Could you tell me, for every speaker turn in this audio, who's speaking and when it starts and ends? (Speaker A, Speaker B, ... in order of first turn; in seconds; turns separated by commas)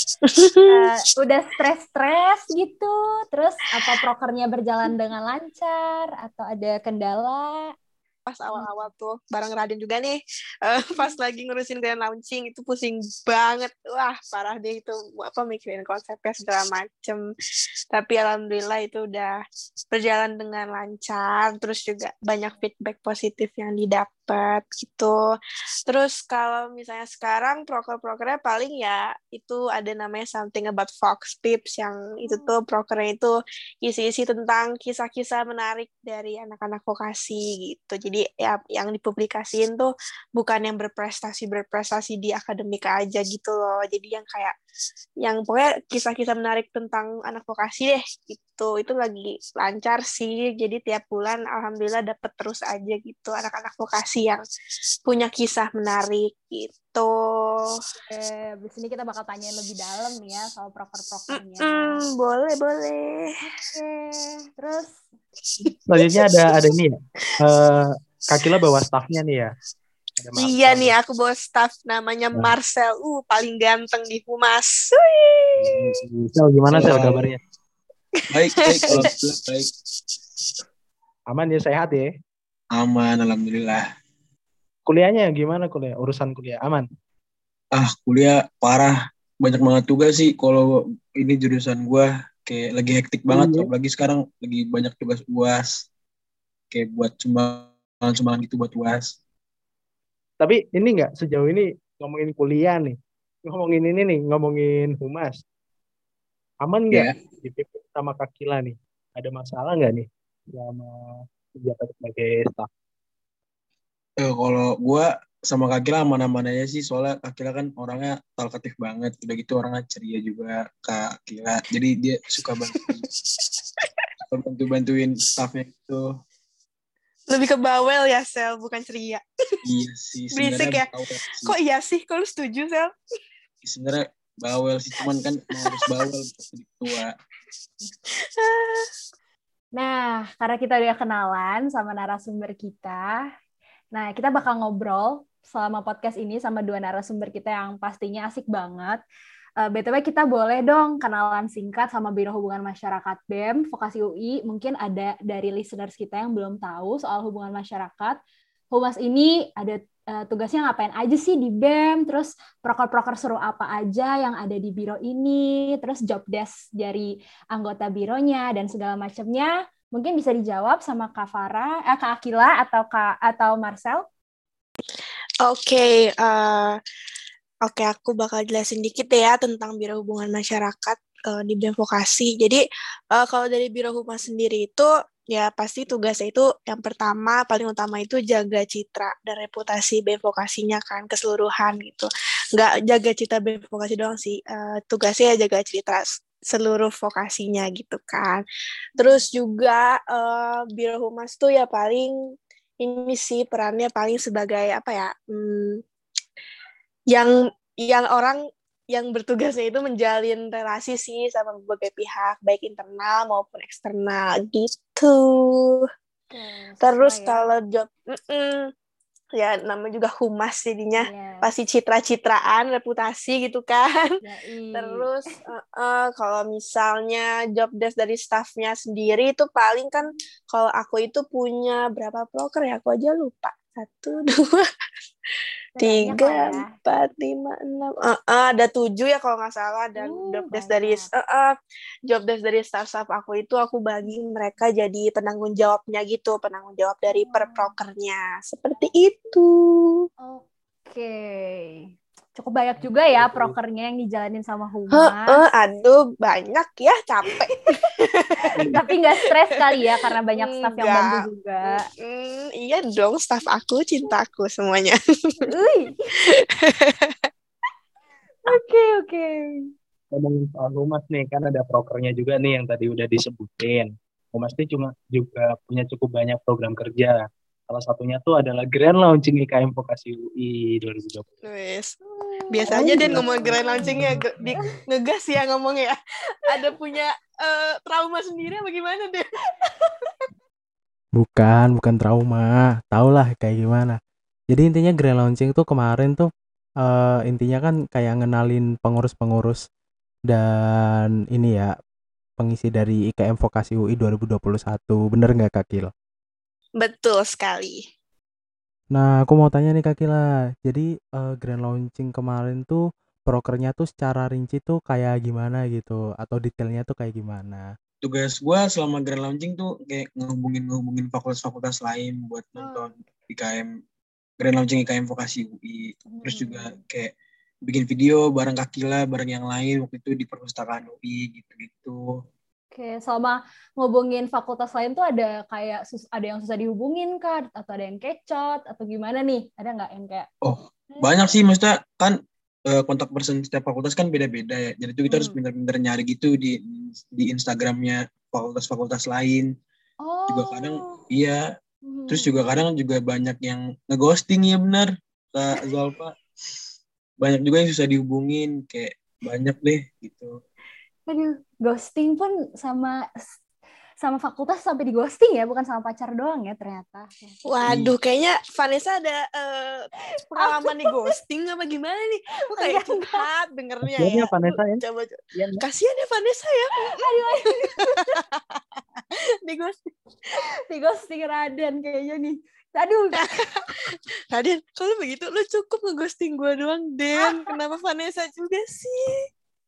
Speaker A: 0.2-0.9, Speaker B: 0.7-7.7, Speaker A: 8.2-17.2, Speaker A: 17.9-19.4, Speaker A: 19.9-25.2, Speaker A: 25.9-44.5, Speaker B: 32.2-32.6, Speaker A: 45.2-54.4, Speaker A: 55.0-57.8, Speaker B: 58.0-62.0, Speaker A: 61.6-63.4, Speaker B: 63.4-65.0, Speaker A: 65.6-66.7, Speaker C: 65.9-69.5, Speaker C: 70.2-70.9, Speaker A: 70.4-75.9, Speaker C: 75.6-77.4, Speaker D: 76.7-77.3, Speaker D: 78.3-79.7, Speaker C: 81.3-82.1, Speaker D: 82.7-83.8, Speaker C: 84.9-86.8, Speaker D: 87.7-95.8, Speaker C: 93.3-93.7, Speaker D: 96.7-99.2, Speaker C: 100.4-105.4, Speaker C: 106.6-112.7, Speaker D: 114.2-123.1, Speaker D: 124.3-126.1, Speaker A: 127.3-129.6, Speaker D: 129.7-131.5, Speaker A: 130.4-130.9, Speaker A: 131.4-132.9, Speaker D: 133.6-137.1, Speaker A: 135.5-135.9, Speaker A: 138.4-138.9, Speaker B: 139.8-143.2, Speaker B: 143.9-149.0, Speaker B: 149.6-158.2, Speaker B: 158.7-174.0, Speaker A: 175.4-176.8, Speaker A: 177.7-182.6, Speaker A: 183.1-198.4, Speaker B: 199.0-199.3, Speaker A: 199.0-202.2, Speaker A: 202.8-205.8, Speaker A: 207.1-208.4, Speaker A: 208.9-215.9, Speaker B: 216.3-217.5, Speaker A: 216.8-218.7, Speaker A: 219.4-224.2, Speaker B: 221.0-221.5, Speaker B: 224.2-225.0, Speaker A: 224.7-234.7, Speaker B: 235.8-236.7, Speaker A: 235.8-241.6, Speaker B: 240.0-241.1, Speaker A: 242.1-250.1, Speaker B: 247.1-247.7, Speaker B: 250.2-255.4, Speaker C: 252.8-253.5, Speaker A: 255.0-258.8, Speaker B: 257.5-257.8, Speaker C: 258.5-258.8, Speaker B: 258.6-261.9, Speaker A: 260.3-265.5, Speaker B: 265.4-266.1, Speaker A: 266.3-267.3, Speaker B: 268.4-269.7, Speaker C: 270.1-281.3, Speaker A: 281.4-281.9, Speaker B: 282.0-284.7, Speaker A: 282.5-289.3, Speaker C: 282.7-284.4, Speaker E: 291.2-294.0, Speaker E: 294.5-296.3, Speaker E: 296.8-299.6, Speaker E: 300.3-301.7, Speaker E: 302.4-305.9, Speaker A: 306.8-307.8, Speaker E: 308.9-317.7, Speaker D: 318.0-323.7, Speaker B: 322.6-323.1, Speaker D: 324.4-327.1, Speaker B: 326.1-326.8, Speaker D: 327.7-332.0, Speaker B: 332.7-340.3, Speaker D: 340.4-342.2, Speaker B: 340.9-341.4, Speaker D: 342.7-349.5, Speaker B: 345.1-345.4, Speaker B: 350.0-351.0, Speaker D: 350.3-351.4, Speaker B: 351.9-352.5, Speaker D: 352.1-356.2, Speaker D: 357.2-360.3, Speaker B: 361.1-363.4, Speaker B: 364.0-367.4, Speaker A: 367.5-377.1, Speaker B: 370.3-371.1, Speaker B: 372.5-373.2, Speaker C: 373.8-374.8, Speaker C: 375.4-375.6, Speaker B: 376.9-378.1, Speaker A: 377.6-378.6, Speaker A: 379.4-379.9, Speaker B: 380.4-383.3, Speaker A: 383.2-383.6, Speaker A: 384.3-389.3, Speaker B: 387.2-387.5